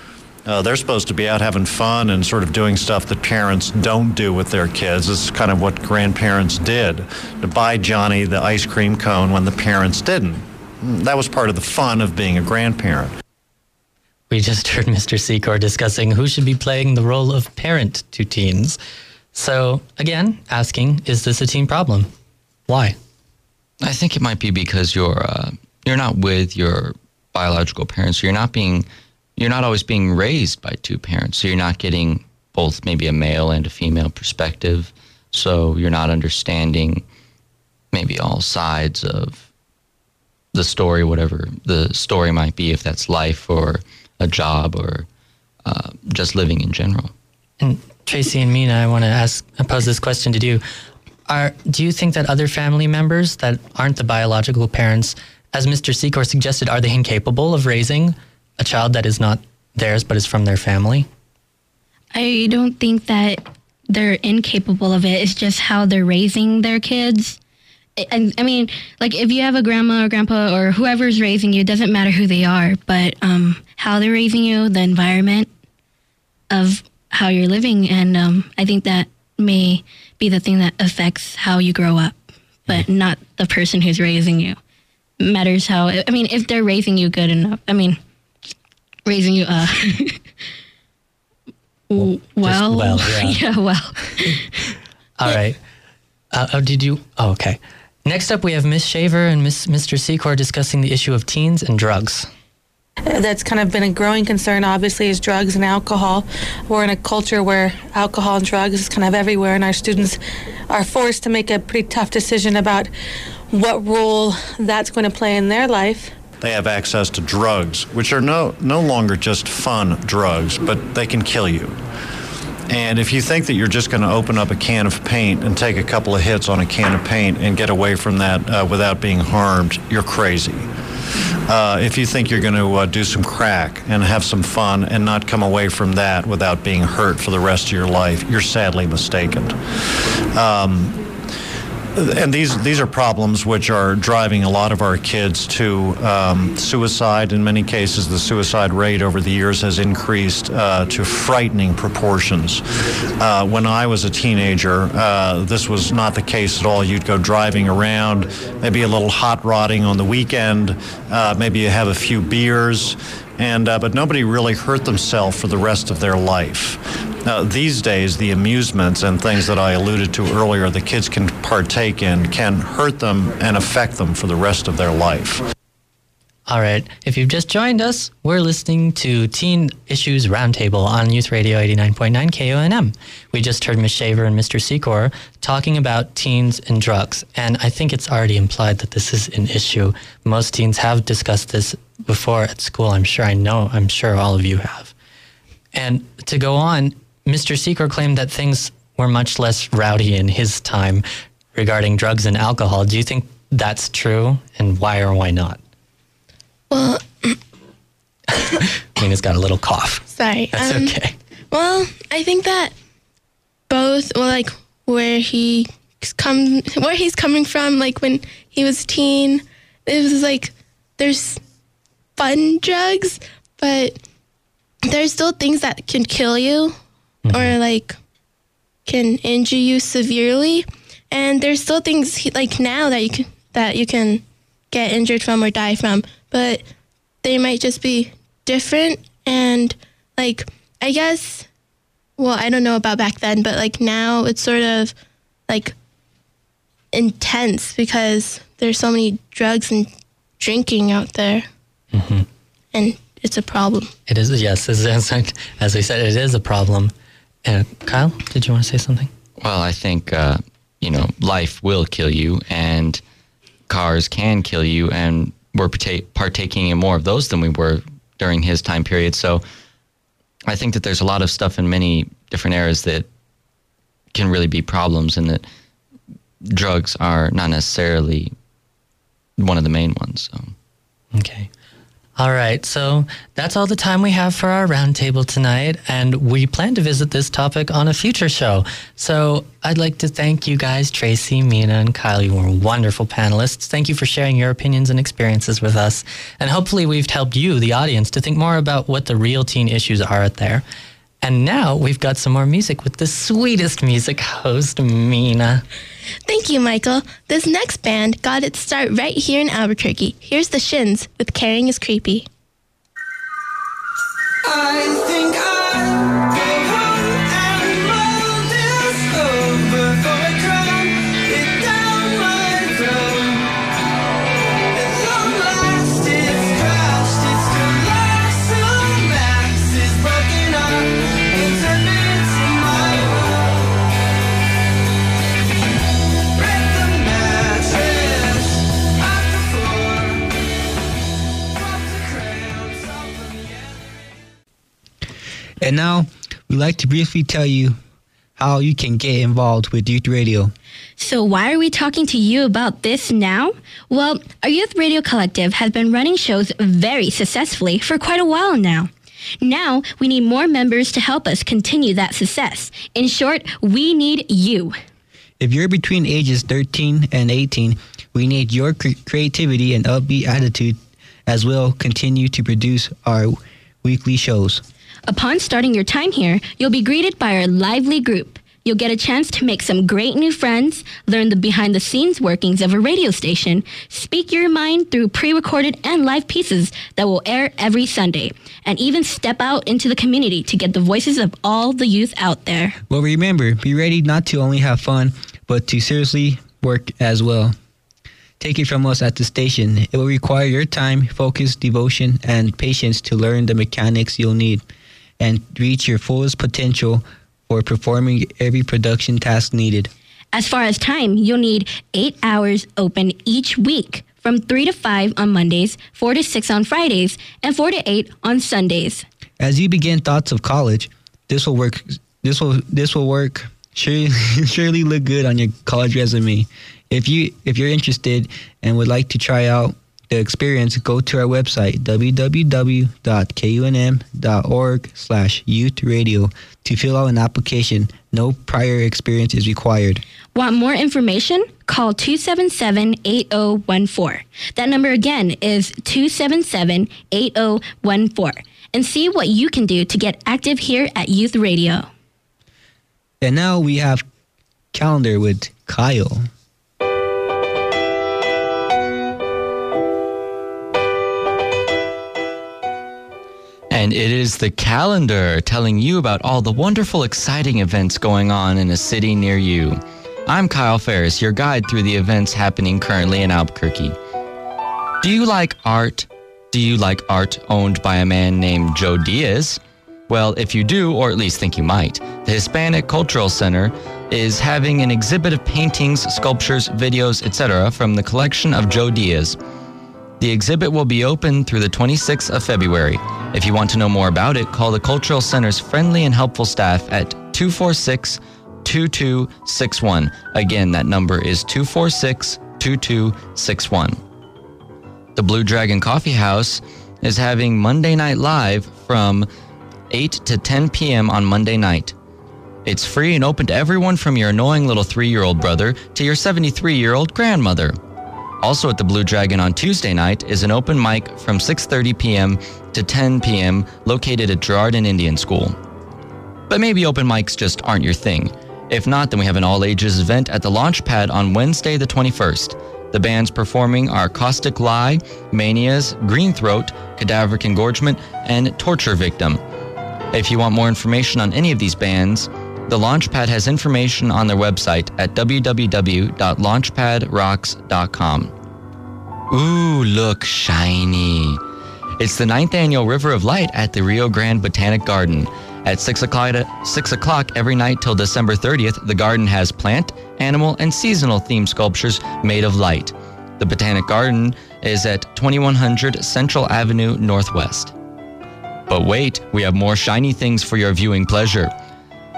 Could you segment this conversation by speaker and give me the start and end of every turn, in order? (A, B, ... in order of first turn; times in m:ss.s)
0:00.5-0:13.1 A
0:14.3-0:18.8 B
0:19.3-0:22.1 B
0:22.7-0:23.0 B
0:23.8-0:28.9 C
0:29.4-0:37.0 C
0:37.9-0:39.5 C
0:40.5-0:45.1 C
0:45.6-0:47.1 C
0:47.6-0:50.6 B
0:51.3-1:01.1 B
1:02.1-1:07.4 D
1:08.0-1:15.5 D
1:16.5-1:24.6 D
1:25.2-1:28.0 D
1:29.1-1:30.2 D
1:31.9-1:34.5 D
1:32.4-1:33.4 B
1:35.2-1:35.6 B
1:36.3-1:42.3 B
1:43.1-1:50.2 E
1:50.7-1:52.9 E
1:53.5-1:56.2 E
1:56.4-2:01.8 A
2:02.7-2:10.7 A
2:11.5-2:19.6 A
2:20.3-2:21.0 A
2:22.0-2:32.6 A
2:33.2-2:55.4 A
2:56.5-3:14.9 B
3:15.7-3:25.6 B
3:26.7-3:27.4 F
3:28.5-3:31.1 B
3:30.1-3:31.0 F
3:31.5-3:32.7 F
3:33.7-3:41.4 F
3:42.2-3:44.0 F
3:44.8-3:46.8 F
3:47.3-3:47.5 B
3:47.3-3:48.0 F
3:48.9-3:56.6 F
3:57.2-4:01.5 F
4:02.2-4:04.9 F
4:05.5-4:05.8 F
4:06.9-4:11.5 F
4:11.9-4:12.3 B
4:12.7-4:13.9 F
4:14.1-4:16.9 B
4:17.4-4:19.1 B
4:19.4-4:23.0 C
4:23.7-4:29.4 C
4:30.5-4:33.1 C
4:34.1-4:35.4 C
4:36.5-4:38.3 C
4:39.4-4:40.5 C
4:41.1-4:41.5 B
4:42.2-5:00.6 B
5:01.2-5:05.6 B
5:06.3-5:12.3 F
5:14.4-5:23.5 G
5:24.7-5:33.9 G
5:36.3-5:40.9 G
5:41.5-5:44.3 G
5:45.6-5:47.8 H
5:48.4-5:50.5 H
5:51.0-5:58.9 D
5:59.4-6:04.8 D
6:05.4-6:14.6 H
6:15.1-6:32.8 D
6:32.9-6:37.6 H
6:38.4-6:44.6 H
6:45.2-6:49.9 H
6:50.3-6:59.0 D
6:59.4-7:20.0 H
7:20.3-7:31.9 D
7:33.2-7:34.0 H
7:34.7-7:36.3 H
7:43.7-7:54.0 C
7:55.0-8:09.4 C
8:10.2-8:24.0 C
8:25.2-8:29.3 C
8:29.9-8:31.9 C
8:32.6-8:37.8 C
8:38.4-8:45.6 C
8:46.5-8:59.4 C
9:00.1-9:08.3 C
9:09.3-9:11.4 C
9:12.0-9:27.7 C
9:28.7-9:31.5 C